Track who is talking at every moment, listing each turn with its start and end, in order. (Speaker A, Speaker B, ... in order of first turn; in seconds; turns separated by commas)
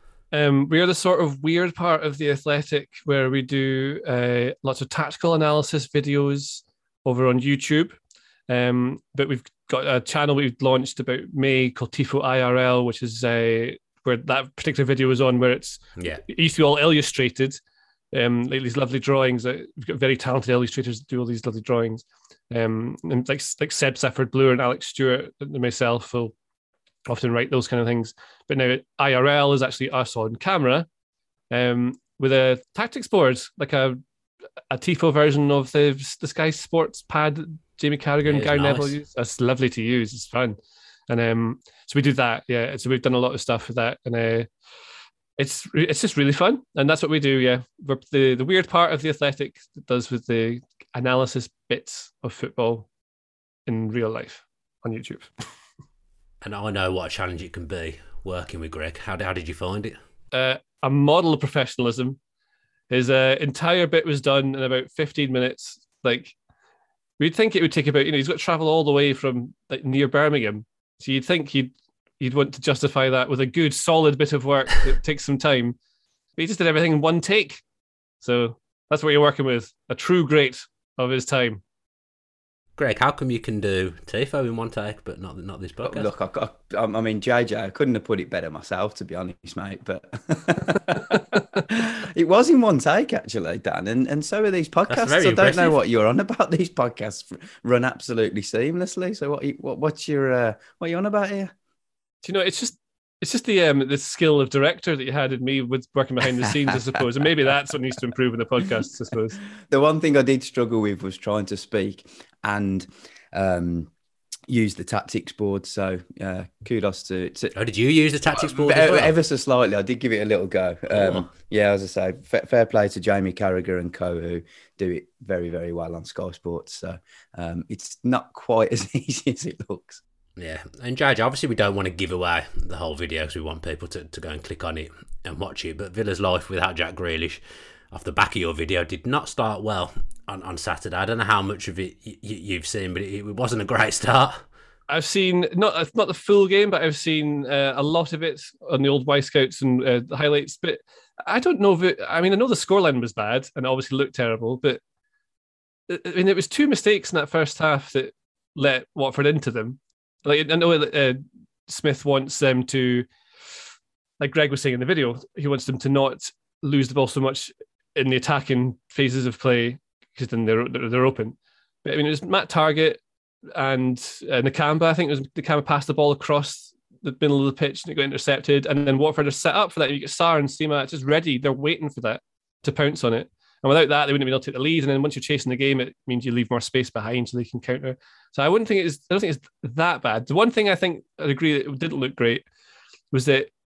Speaker A: 0.3-8.0, Speaker A: 8.5-17.6, Speaker B: 16.0-16.2, Speaker A: 18.1-26.3, Speaker A: 27.1-30.9, Speaker A: 31.5-34.0, Speaker A: 34.7-40.6, Speaker B: 38.2-39.0, Speaker A: 41.1-44.5, Speaker A: 45.4-52.9, Speaker A: 53.6-55.3, Speaker B: 56.4-60.0, Speaker A: 60.3-62.2, Speaker A: 62.9-66.3, Speaker A: 67.2-75.8, Speaker A: 76.4-77.6, Speaker A: 78.2-81.6, Speaker B: 82.8-86.1, Speaker C: 85.8-101.5, Speaker B: 94.9-95.8, Speaker A: 102.2-109.4, Speaker C: 106.5-106.9, Speaker C: 109.6-113.9, Speaker C: 114.5-117.5, Speaker B: 117.5-119.2, Speaker C: 118.3-130.0, Speaker B: 120.9-121.3, Speaker B: 130.4-137.4, Speaker B: 137.9-144.4, Speaker A: 144.9-154.8, Speaker A: 155.9-163.1, Speaker A: 164.2-173.0, Speaker A: 173.5-192.4, Speaker A: 193.1-193.5